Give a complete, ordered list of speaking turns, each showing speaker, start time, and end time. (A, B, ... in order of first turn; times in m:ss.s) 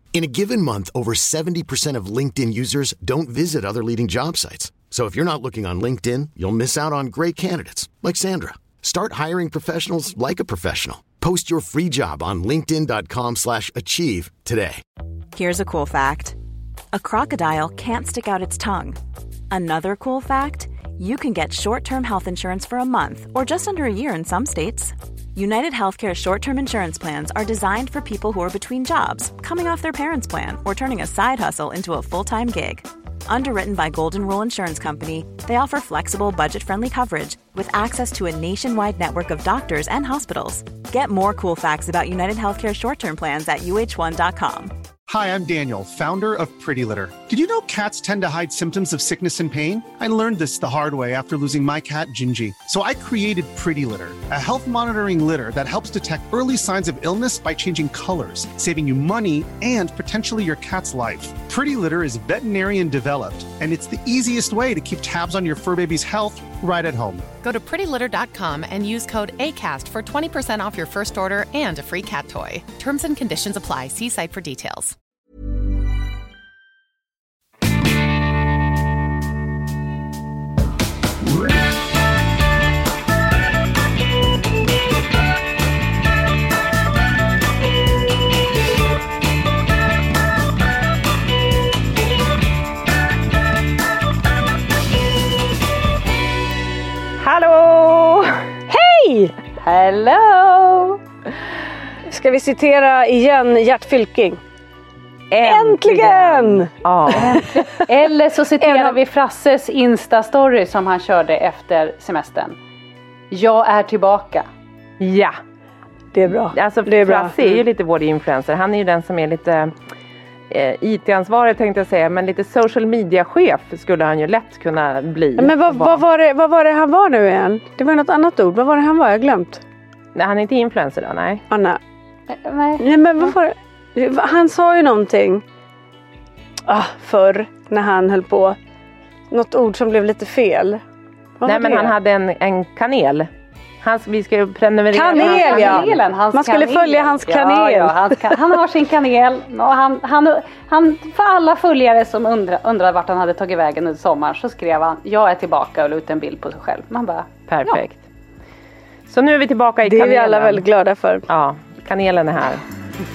0:00.1-0:14.8 A
0:15.3-0:16.4 B
0:16.9-0:19.0 B
0:19.5-0:44.7 B
0:45.1-1:07.3 C
1:07.4-1:15.0 D
1:37.2-1:38.5 E
1:38.7-1:39.3 F
1:39.6-1:41.0 G
1:42.1-1:44.4 F
1:45.3-1:47.5 E
1:45.4-1:47.9 F
1:47.5-1:52.6 G
1:48.6-1:49.0 F
1:53.3-1:54.5 G
1:55.0-1:55.4 E
1:56.1-1:57.5 F
1:56.5-1:59.8 E
2:00.5-2:06.0 E
2:05.4-2:09.6 F
2:10.2-2:11.4 E
2:11.5-2:11.8 F
2:12.3-2:12.9 G
2:12.8-2:15.4 F
2:16.6-2:18.6 F
2:19.3-2:20.8 F
2:21.4-2:22.0 F
2:21.4-2:23.3 E
2:23.8-2:26.0 E
2:24.9-2:28.4 F
2:25.1-2:37.3 G
2:37.5-2:38.0 E
2:39.1-2:40.7 E
2:39.8-2:41.3 F
2:41.3-2:42.6 E